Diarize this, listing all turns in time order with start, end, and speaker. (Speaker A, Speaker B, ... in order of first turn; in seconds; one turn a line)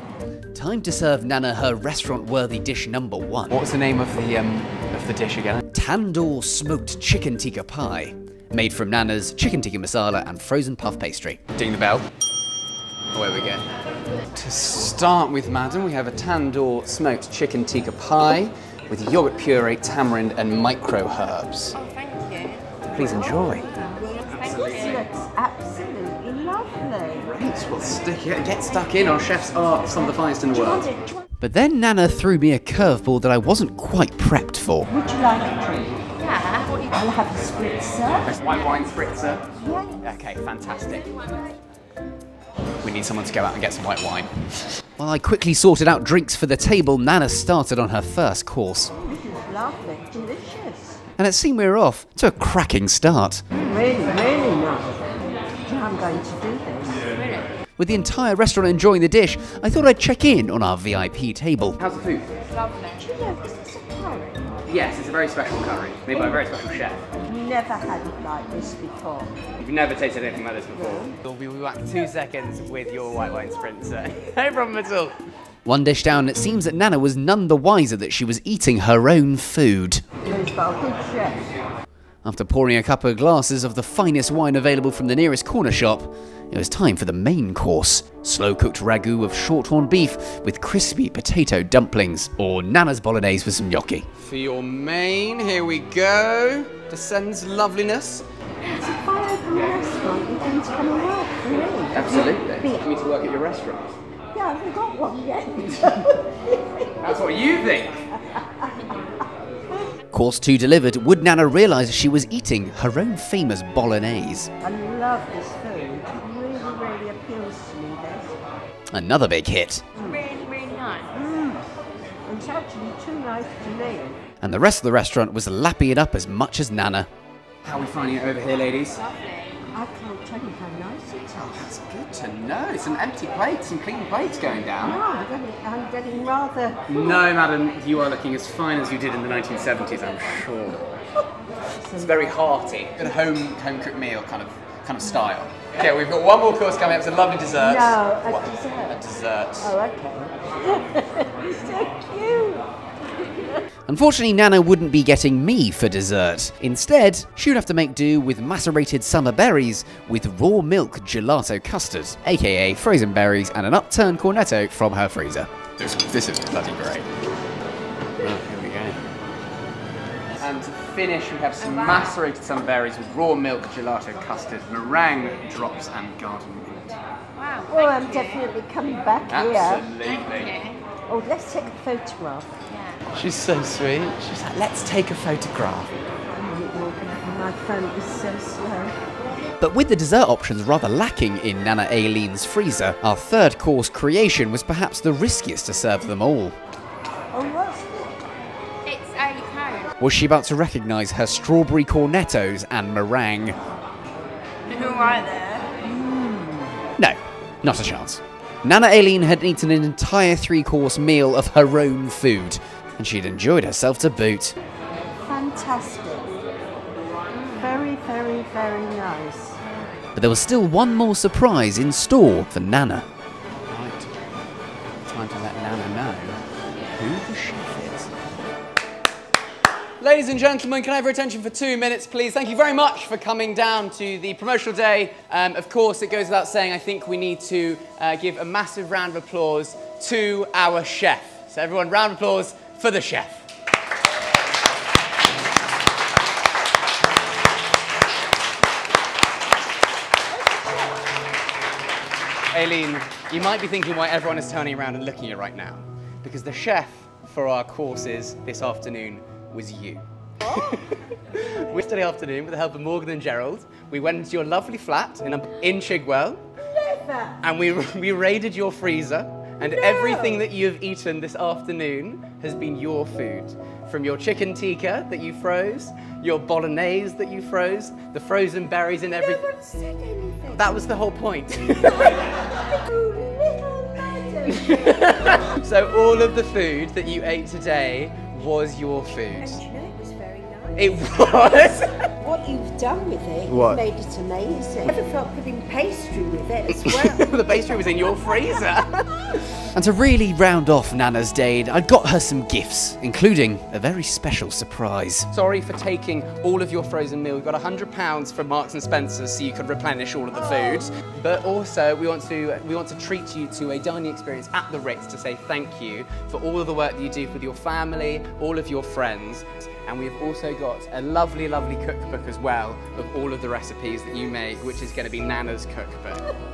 Speaker A: 0.5-3.6
Speaker B: 3.5-5.6
Speaker A: 5.7-11.5
Speaker B: 11.6-12.1
Speaker B: 13.1-13.6
Speaker B: 14.3-21.8
Speaker C: 21.8-22.6
Speaker B: 22.9-23.7
Speaker C: 24.3-25.0
Speaker B: 24.3-25.0
Speaker D: 24.7-27.3
Speaker B: 27.2-30.9
Speaker D: 30.6-31.2
Speaker A: 31.4-34.9
Speaker D: 34.9-36.1
Speaker C: 36.2-36.9
Speaker D: 36.9-38.3
Speaker B: 38.2-39.4
Speaker D: 39.6-40.1
Speaker B: 40.0-41.1
Speaker B: 42.8-44.5
Speaker A: 45.0-48.9
Speaker D: 49.0-51.0
Speaker A: 51.2-53.5
Speaker D: 53.6-57.1
Speaker C: 57.1-57.5
Speaker A: 57.8-61.8
Speaker B: 61.8-62.3
Speaker C: 62.6-63.0
Speaker D: 63.0-64.6
Speaker B: 64.7-67.0
Speaker D: 67.3-69.4
Speaker B: 69.6-75.2
Speaker D: 70.8-71.2
Speaker A: 75.7-80.0
Speaker D: 80.2-81.5
Speaker A: 82.2-94.1
Speaker B: 94.2-98.2
Speaker D: 98.7-102.8
Speaker B: 101.9-104.0
Speaker D: 104.3-106.9
Speaker B: 107.0-108.0
Speaker A: 110.1-114.5
Speaker D: 114.6-118.3
Speaker A: 118.9-119.9
Speaker D: 120.0-120.3
Speaker C: 120.0-121.1
Speaker D: 121.1-121.7
Speaker D: 122.3-124.2
Speaker A: 124.4-127.1
Speaker B: 127.6-129.0
Speaker C: 129.0-129.6
Speaker D: 129.7-131.6
Speaker B: 131.4-135.0
Speaker D: 134.8-137.0
Speaker B: 136.9-140.9
Speaker D: 141.8-142.5
Speaker B: 142.0-149.7
Speaker D: 147.6-149.0
Speaker D: 149.6-152.7
Speaker A: 153.9-165.5
Speaker B: 165.8-167.1
Speaker B: 168.2-169.0
Speaker B: 170.4-177.0
Speaker C: 177.4-178.4
Speaker D: 177.7-179.9
Speaker B: 179.3-180.5
Speaker C: 180.0-180.8
Speaker D: 181.1-182.5
Speaker C: 182.7-183.0
Speaker B: 183.1-185.9
Speaker D: 186.3-189.0
Speaker A: 189.6-196.6
Speaker D: 197.3-198.2
Speaker C: 198.8-199.9
Speaker A: 200.0-203.6
Speaker C: 204.7-205.6
Speaker D: 205.0-206.6
Speaker A: 207.0-214.6
Speaker D: 215.2-216.4
Speaker C: 217.3-217.8
Speaker D: 217.6-219.6
Speaker A: 220.2-223.1
Speaker B: 223.7-224.1
Speaker B: 225.1-226.4
Speaker A: 227.0-228.1
Speaker B: 230.0-243.5
Speaker B: 252.5-260.0
Speaker B: 261.3-266.4
Speaker D: 266.8-267.4
Speaker B: 267.4-279.4
Speaker D: 269.6-270.5
Speaker D: 279.1-280.8
Speaker B: 280.5-282.4
Speaker D: 282.1-285.4
Speaker B: 284.6-289.6
Speaker D: 289.4-291.5
Speaker B: 290.8-292.1
Speaker D: 292.1-297.6
Speaker B: 296.7-299.6
Speaker A: 299.7-305.3
Speaker B: 305.3-326.3